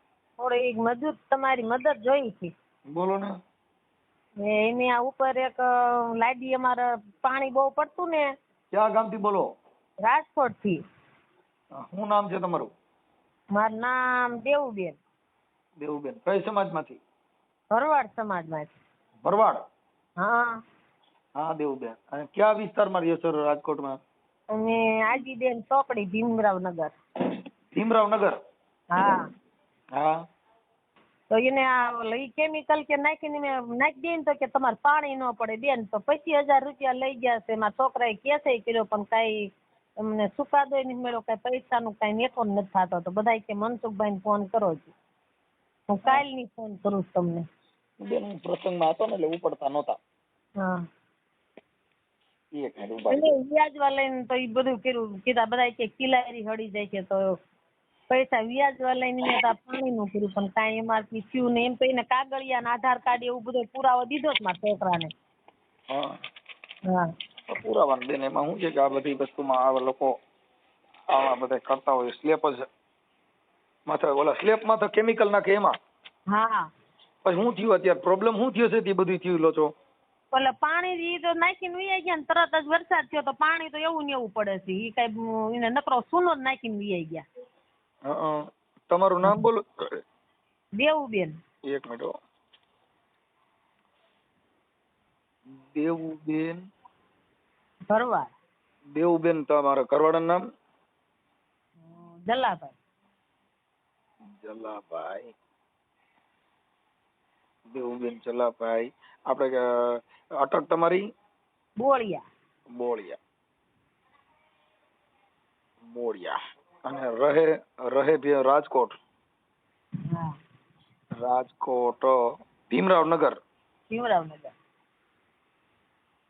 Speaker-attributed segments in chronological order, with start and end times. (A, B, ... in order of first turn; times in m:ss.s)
0:00.4-0:02.5 A
0:02.9-0:03.3 B
0:04.4-0:05.6 A
0:06.2-0:08.3 A
0:08.7-0:09.5 B
0:10.0-0:10.8 A
0:11.7-0:12.7 B
0:13.5-0:15.0 A
0:15.8-0:17.0 B
0:17.7-0:18.7 A
0:19.2-0:19.6 B
0:20.2-0:20.5 A
0:21.4-0:24.0 B
0:24.5-0:26.9 A
0:27.7-0:28.4 B
0:28.9-0:29.2 A
0:31.3-0:39.5 A
0:40.0-0:44.9 A
0:45.9-0:47.4 A
0:48.0-0:50.0 B
0:52.6-0:53.3 B
0:53.1-0:57.3 A
0:58.1-1:05.1 A
1:07.5-1:10.1 B
1:11.1-1:12.6 B
1:13.9-1:15.7 B
1:16.3-1:16.7 A
1:17.2-1:19.7 B
1:20.3-1:27.2 A
1:28.0-1:29.6 B
1:30.8-1:31.4 A
1:31.7-1:32.1 B
1:35.5-1:36.6 B
1:37.9-1:38.3 A
1:38.9-1:40.4 B
1:41.8-1:42.8 A
1:44.3-1:45.3 B
1:47.7-1:49.6 B
1:50.4-1:51.0 B
1:51.8-1:52.2 A
1:52.7-1:53.2 B
1:55.8-1:59.0 B
2:01.2-2:02.1 B
2:02.7-2:03.4 B
2:03.9-2:04.5 A